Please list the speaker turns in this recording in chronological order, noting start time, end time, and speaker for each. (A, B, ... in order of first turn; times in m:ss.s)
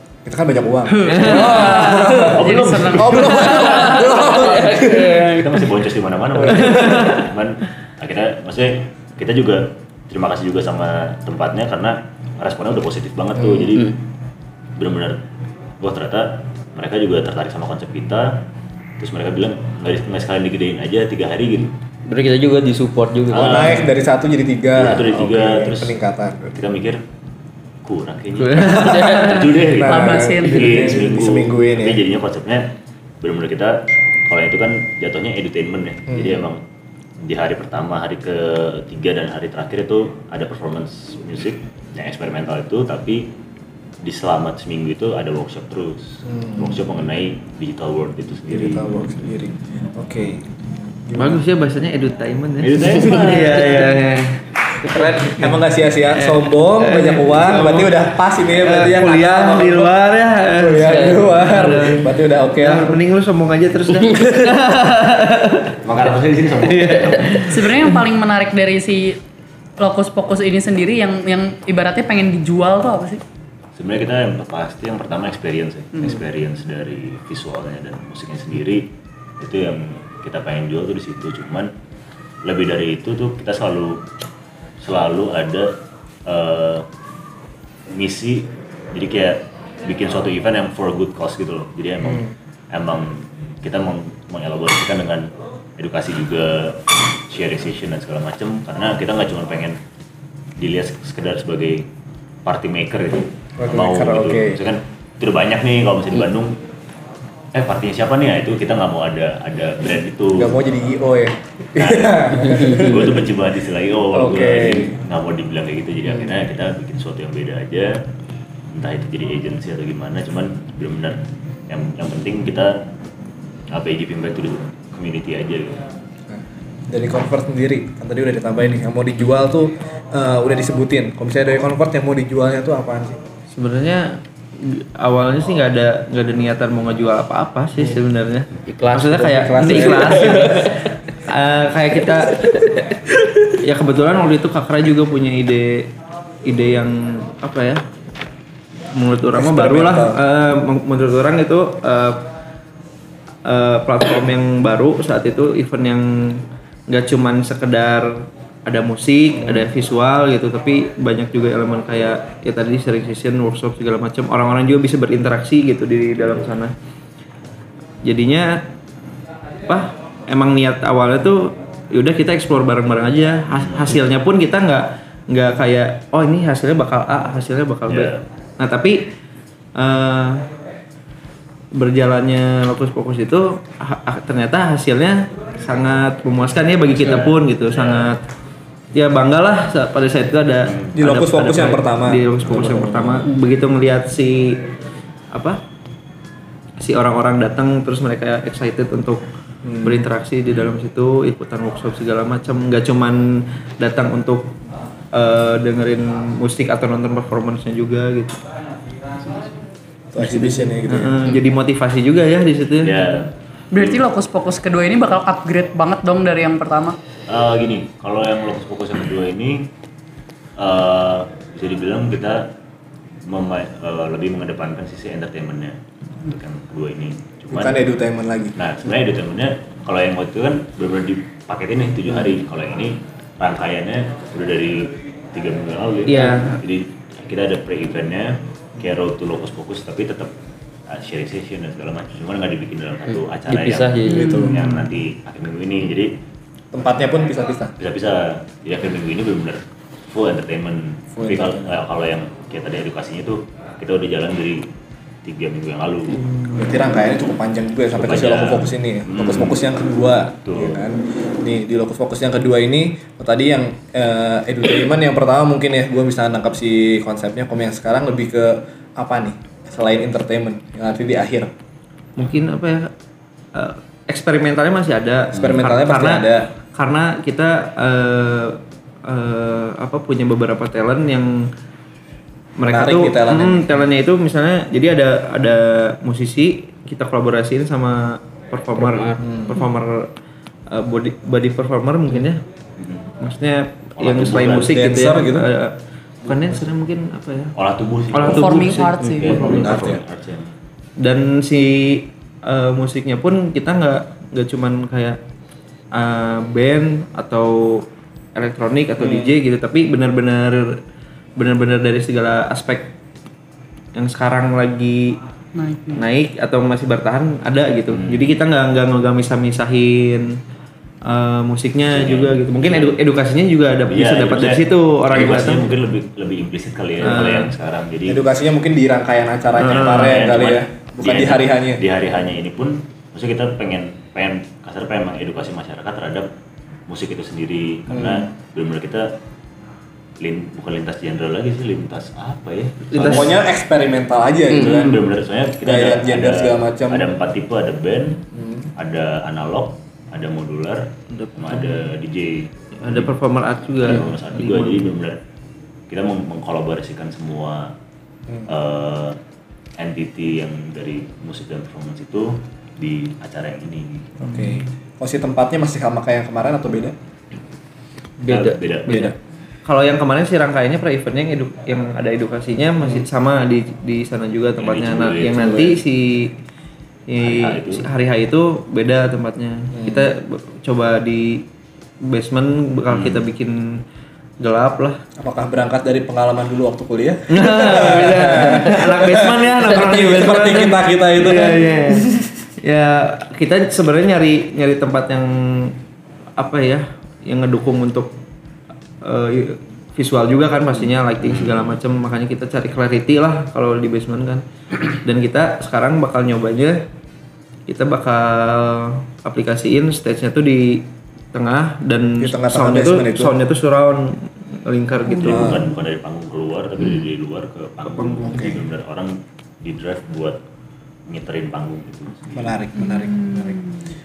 0:00.2-0:05.2 A
0:01.0-0:03.5 B
0:01.3-0:14.0 C
0:03.6-0:05.6 D
0:06.6-0:07.0 A
0:13.4-0:13.7 A
0:14.8-0:15.2 C
0:15.8-0:18.4 C
0:19.0-0:21.7 C
0:22.1-0:23.9 D
0:23.3-0:23.9 C
0:23.3-0:26.6 A
0:24.8-0:26.0 C
0:26.5-0:27.0 C
0:27.8-0:36.6 C
0:28.4-0:29.5 E
0:28.8-0:29.4 D
0:29.7-0:32.0 A
0:29.8-0:30.8 B
0:37.2-0:43.3 C
0:44.0-0:49.0 C
0:46.3-0:46.8 A
0:48.5-0:51.4 A
0:51.2-0:55.6 E
0:52.6-0:54.0 C
0:54.8-1:03.0 A
0:56.1-1:05.8 E
1:00.8-1:01.2 D
1:05.8-1:07.9 C
1:06.6-1:07.8 E
1:07.5-1:09.2 B
1:09.8-1:13.2 B
1:13.8-1:21.7 C
1:22.4-1:24.0 C
1:24.8-1:25.7 C
1:26.3-1:26.9 C
1:27.9-1:39.8 C
1:40.6-1:41.9 C
1:42.4-1:46.6 C
1:43.6-1:44.6 A
1:47.5-1:50.6 C
1:50.3-1:53.3 A
1:51.8-1:58.0 C
1:54.1-1:55.0 A
1:58.7-2:02.8 C
2:03.7-2:05.8 C
2:06.3-2:13.2 A
2:13.5-2:22.6 E
2:18.7-2:20.7 D
2:19.1-2:20.8 A
2:22.5-2:23.4 A
2:23.6-2:25.9 E
2:26.4-2:27.8 E
2:28.9-2:32.2 E
2:29.4-2:30.2 A
2:33.4-2:46.7 E
2:48.0-2:48.7 E
2:49.7-2:59.1 E
2:53.5-2:54.0 C
2:57.9-2:58.2 C
2:59.8-3:00.5 E
3:01.7-3:08.2 E
3:06.9-3:08.1 C
3:08.9-3:14.6 E
3:10.6-3:11.1 C
3:10.9-3:13.2 A
3:12.5-3:12.8 C
3:15.3-3:15.6 E
3:16.8-3:19.2 E
3:19.6-3:20.0 A
3:19.8-3:24.6 E
3:25.1-3:28.4 E
3:29.2-3:29.5 C
3:30.1-3:31.3 A
3:30.2-3:33.1 E
3:32.8-3:34.0 C
3:33.7-3:37.0 B
3:37.3-3:39.7 C
3:40.6-3:42.5 C
3:43.2-3:47.8 C
3:47.5-3:48.6 A
3:48.6-4:00.3 C
3:56.1-3:56.6 E
4:00.9-4:06.2 C
4:03.1-4:04.4 D
4:04.1-4:04.8 B
4:04.2-4:04.6 A
4:06.7-4:07.7 A
4:07.8-4:14.7 C
4:11.2-4:11.6 A
4:15.2-4:16.4 C
4:16.5-4:31.5 A
4:17.9-4:19.6 C
4:20.4-4:20.9 C
4:32.2-4:32.9 E
4:33.5-4:41.5 E
4:35.3-4:36.5 A
4:42.6-4:50.1 E
4:42.7-4:43.8 A
4:48.8-4:49.2 D
4:49.2-4:49.6 A
4:50.7-4:52.4 E
4:52.8-4:53.0 C
4:53.2-4:57.5 E
4:54.0-4:54.8 C
4:54.6-4:55.5 A
4:57.6-5:00.5 C
4:58.1-4:59.8 E
4:58.2-4:59.4 B
4:59.3-5:00.0 A
5:01.0-5:05.2 E
5:05.9-5:10.8 E
5:09.0-5:09.3 A
5:11.4-5:12.9 E
5:14.0-5:15.2 E
5:15.6-5:16.0 B
5:15.9-5:20.4 E
5:17.9-5:18.4 C
5:21.0-5:25.6 E
5:21.9-5:23.0 C
5:23.9-5:28.3 C
5:27.0-5:27.5 E
5:28.1-5:31.8 A
5:29.6-5:36.3 C
5:29.6-5:30.1 E
5:36.9-5:39.1 C
5:37.9-5:38.3 A
5:40.2-5:43.4 C
5:42.9-5:43.4 E
5:43.1-5:45.0 A
5:44.5-5:48.2 C
5:45.6-5:47.1 A
5:48.4-5:48.7 A
5:48.8-5:53.1 C
5:52.8-5:54.9 E
5:53.8-5:55.2 C
5:55.9-5:57.7 C
5:58.5-5:59.2 C
5:59.8-6:04.1 C
6:04.2-6:07.0 A
6:08.2-6:09.2 C
6:08.2-6:08.6 D
6:08.9-6:09.2 A
6:09.6-6:16.3 E
6:14.6-6:15.8 C
6:17.1-6:21.5 E
6:17.2-6:17.9 C
6:19.7-6:20.1 A
6:22.0-6:23.8 E
6:22.9-6:23.3 C
6:24.4-6:25.0 E
6:25.2-6:32.2 A
6:27.3-6:35.8 E
6:36.4-6:38.1 E
6:39.0-6:44.4 E
6:41.2-6:41.8 C
6:45.0-6:46.8 E
6:47.7-6:55.5 E
6:52.2-6:53.4 A
6:55.1-6:55.5 B
6:55.2-7:00.4 C
6:55.3-6:55.7 A
6:57.8-6:58.6 E
6:58.3-6:58.6 A
7:01.1-7:02.6 C
7:02.4-7:03.6 A
7:02.8-7:03.8 B